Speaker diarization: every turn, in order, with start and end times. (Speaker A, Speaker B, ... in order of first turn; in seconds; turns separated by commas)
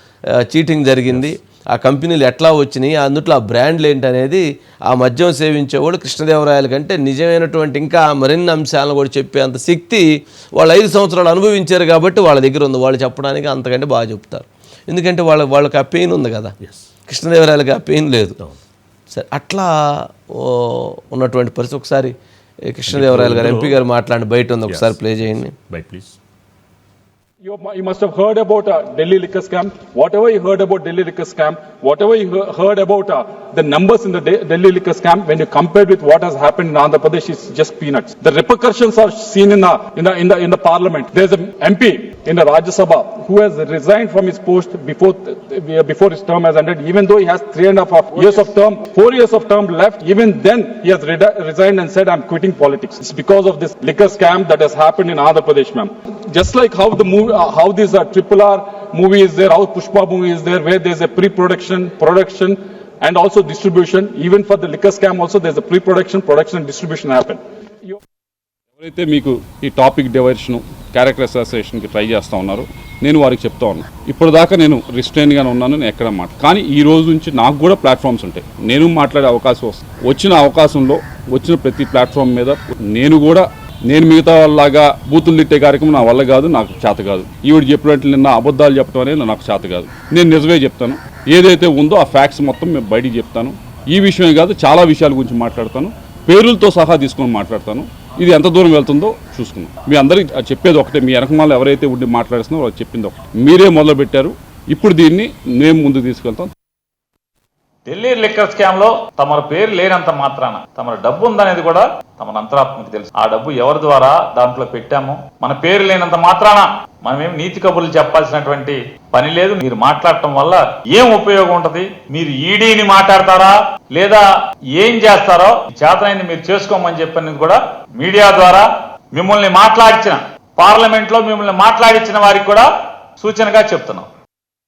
Speaker A: 0.4-16.5, Speaker B: 16.6-16.9, Speaker A: 17.1-18.4, Speaker A: 19.1-22.1, Speaker A: 22.7-25.5, Speaker B: 22.9-23.8, Speaker B: 24.7-26.2, Speaker C: 27.4-68.0, Speaker D: 68.8-106.5, Speaker E: 107.9-134.1